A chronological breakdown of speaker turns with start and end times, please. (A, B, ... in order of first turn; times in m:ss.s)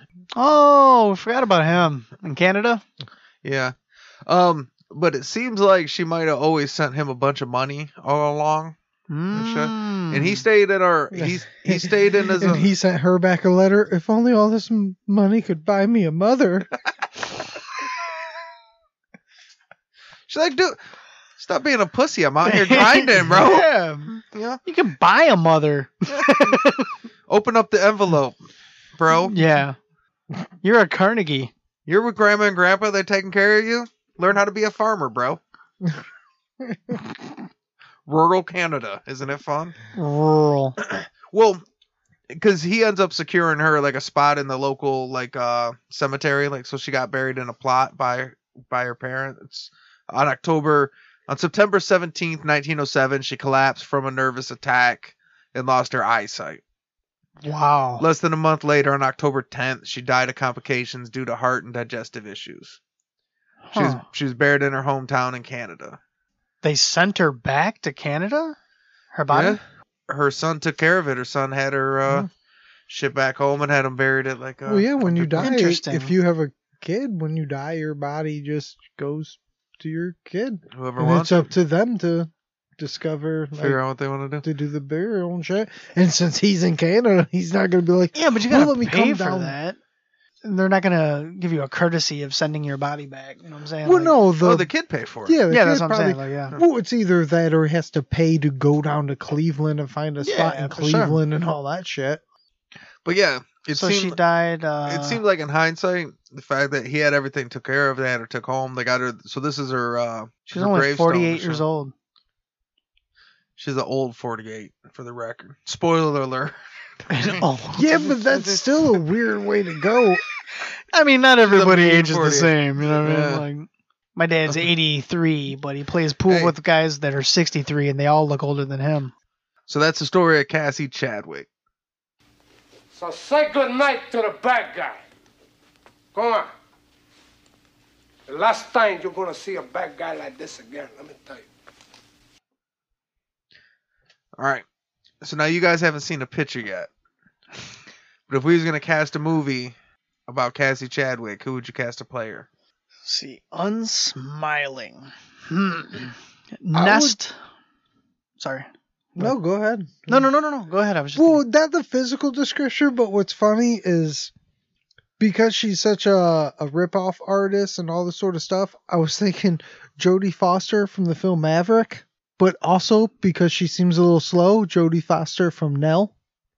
0:00.4-0:02.8 A
0:03.4-0:03.7 B
0:04.3-0:08.7 B
0:09.1-0:10.4 A
0:09.3-0:12.7 B
0:11.1-0:16.7 C
0:20.3-0:20.8 B
0:21.4-0:24.6 B
0:22.4-0:26.9 A
0:26.2-0:26.6 B
0:27.3-0:28.4 B
0:29.0-0:29.4 B
0:29.1-0:29.8 A
0:30.6-0:31.5 A
0:31.9-0:35.4 B
0:36.6-0:36.9 C
0:38.1-0:39.8 B
0:39.9-0:40.8 A
0:40.8-0:41.6 B
0:42.3-0:56.6 B
0:57.4-0:58.0 A
0:58.0-1:02.8 B
1:03.6-1:04.0 A
1:03.7-1:06.0 B
1:06.6-1:08.6 A
1:09.1-1:09.6 A
1:09.3-1:12.3 B
1:12.9-1:15.5 B
1:14.6-1:23.8 C
1:15.4-1:16.1 A
1:20.7-1:21.5 B
1:23.6-1:24.4 B
1:24.4-1:29.6 C
1:28.1-1:29.8 A
1:30.4-1:34.2 A
1:33.8-1:34.7 C
1:34.4-1:35.4 B
1:35.2-1:42.2 C
1:35.5-1:36.6 A
1:40.2-1:41.2 A
1:43.0-1:44.2 B
1:43.7-1:45.2 A
1:44.8-1:51.6 B
1:50.5-1:51.9 A
1:53.6-1:57.4 B
1:57.1-1:57.9 A
1:57.8-2:00.2 C
1:58.3-1:58.6 B
2:00.9-2:09.1 A
2:01.4-2:03.4 B
2:06.3-2:06.6 B
2:09.7-2:11.5 B
2:12.9-2:15.0 D
2:16.1-2:16.5 D
2:18.3-2:21.5 D
2:24.4-2:24.6 B
2:25.2-2:26.9 B
2:28.3-2:29.8 B
2:30.3-2:32.5 B
2:33.0-2:37.4 A
2:36.7-2:37.2 C
2:38.4-2:38.7 A
2:39.2-2:40.3 C
2:40.1-2:41.4 A
2:41.2-2:44.3 C
2:45.2-2:56.1 C